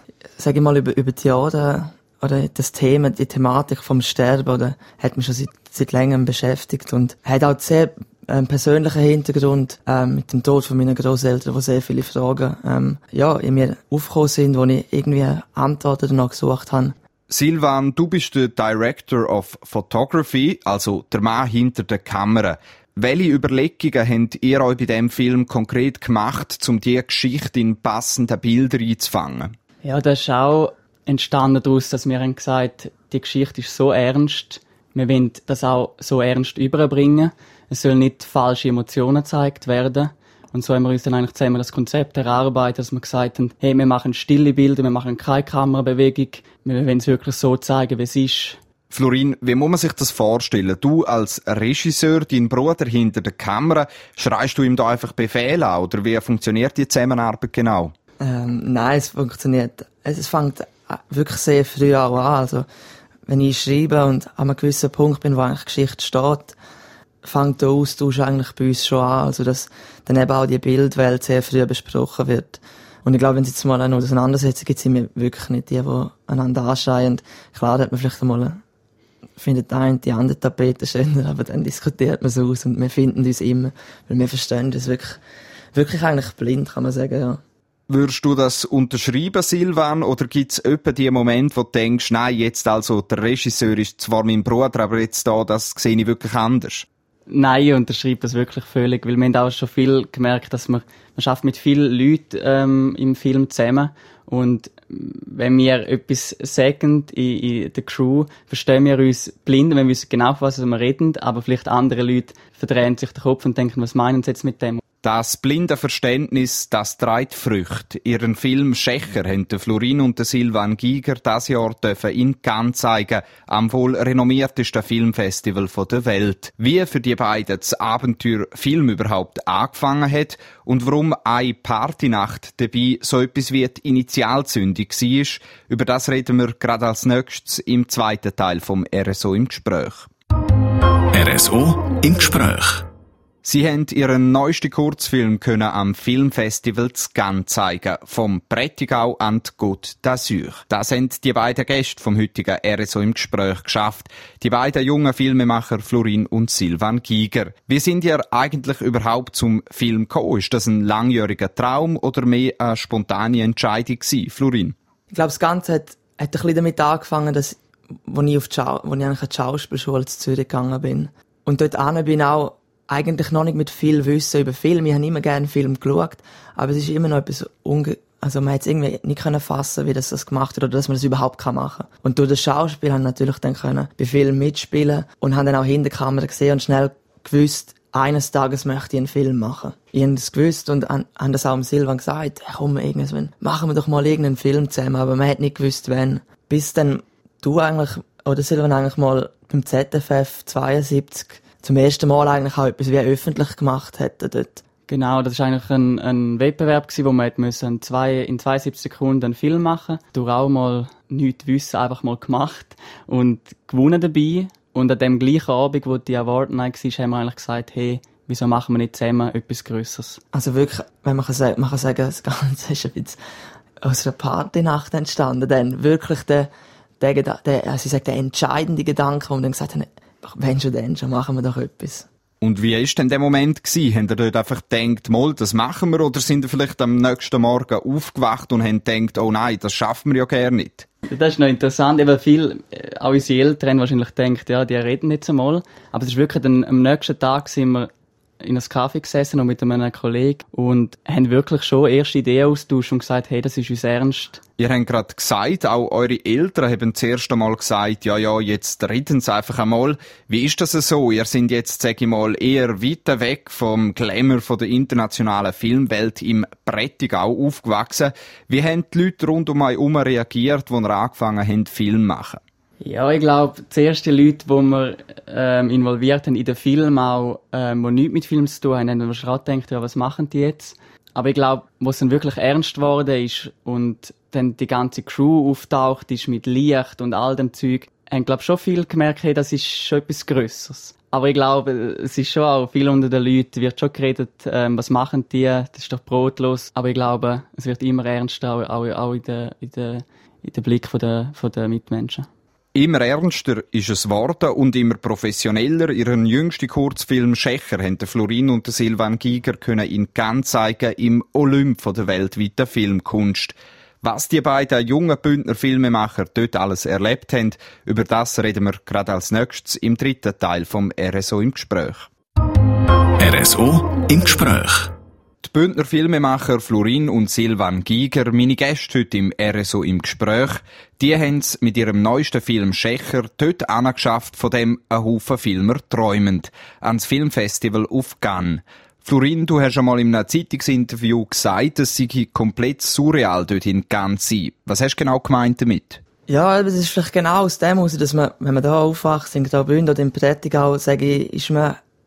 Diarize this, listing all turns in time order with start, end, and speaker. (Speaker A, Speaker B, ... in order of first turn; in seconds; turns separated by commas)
Speaker A: 0.4-16.9, Speaker B: 17.3-29.5, Speaker C: 29.8-48.6, Speaker B: 48.9-57.9, Speaker A: 58.2-62.7, Speaker A: 63.3-66.5, Speaker A: 67.2-78.6, Speaker A: 79.4-85.2, Speaker A: 85.7-87.4, Speaker B: 87.9-96.8, Speaker C: 97.3-114.8, Speaker B: 115.0-140.1, Speaker D: 141.2-142.7, Speaker B: 143.4-164.7, Speaker A: 165.1-204.6, Speaker C: 204.9-220.2, Speaker A: 220.3-223.2, Speaker A: 223.8-232.1, Speaker B: 232.4-240.9, Speaker C: 241.1-247.9, Speaker C: 248.4-254.4, Speaker B: 254.6-272.4, Speaker C: 272.8-302.2, Speaker B: 302.7-322.1, Speaker D: 323.2-324.8, Speaker B: 325.4-346.0, Speaker A: 346.3-351.8